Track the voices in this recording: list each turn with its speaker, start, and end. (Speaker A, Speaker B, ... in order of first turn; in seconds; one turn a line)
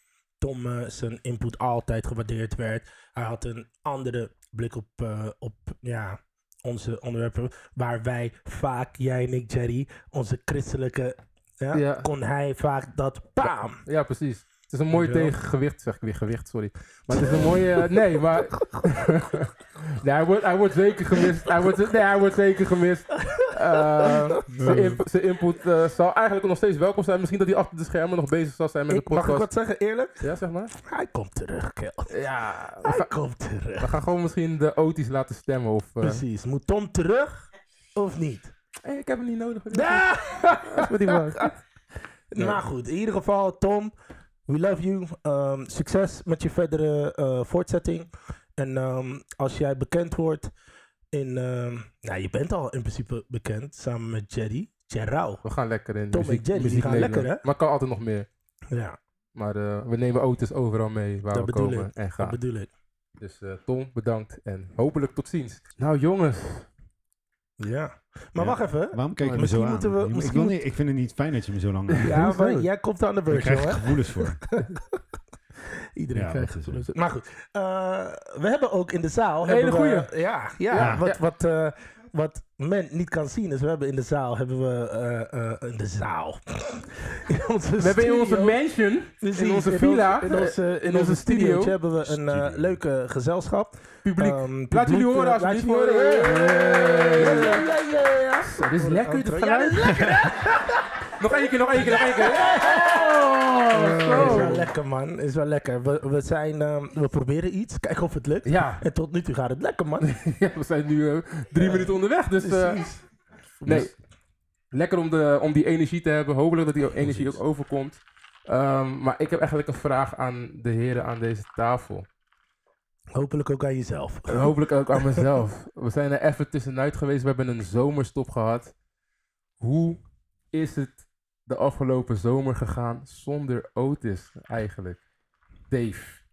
Speaker A: 0.4-13.8
Speaker B: 11.7-12.1
Speaker B: 13.8-29.5
Speaker A: 14.9-15.3
Speaker A: 17.1-17.9
Speaker A: 18.5-19.2
Speaker A: 21.2-21.5
Speaker A: 23.2-24.4
Speaker C: 24.5-25.0
Speaker A: 28.9-30.3
Speaker B: 30.2-30.7
Speaker A: 30.8-32.1
Speaker B: 32.1-33.1
Speaker A: 32.8-34.0
Speaker B: 33.8-36.2
Speaker A: 36.0-38.5
Speaker B: 38.8-41.6
Speaker A: 39.7-41.5
Speaker A: 42.3-43.9
Speaker B: 42.4-42.6
Speaker A: 44.5-50.5
Speaker A: 51.1-55.4
Speaker B: 55.4-58.3
Speaker A: 56.1-57.4
Speaker A: 58.7-59.0
Speaker B: 59.3-62.4
Speaker A: 61.3-62.7
Speaker B: 63.2-66.7
Speaker A: 67.6-70.6
Speaker C: 68.3-72.2
Speaker B: 69.2-69.5
Speaker B: 71.9-72.7
Speaker A: 72.0-75.0
Speaker C: 73.3-74.4
Speaker A: 75.6-88.6
Speaker C: 76.1-76.8
Speaker B: 79.4-80.1
Speaker B: 80.7-81.2
Speaker C: 80.8-81.0
Speaker B: 87.8-91.8
Speaker A: 89.2-100.9
Speaker C: 92.0-92.7
Speaker B: 94.0-97.7
Speaker B: 98.5-100.5
Speaker C: 99.9-100.3
Speaker B: 101.2-104.7
Speaker A: 101.8-110.1
Speaker C: 103.7-104.7
Speaker B: 108.5-108.8
Speaker B: 110.0-112.9
Speaker A: 111.5-113.0
Speaker A: 113.6-113.9
Speaker B: 113.6-113.9
Speaker C: 113.7-113.9
Speaker B: 114.7-122.1
Speaker C: 117.0-117.4
Speaker A: 123.1-125.3
Speaker B: 124.3-128.7
Speaker B: 129.6-130.0
Speaker B: 130.5-135.0
Speaker B: 135.7-136.2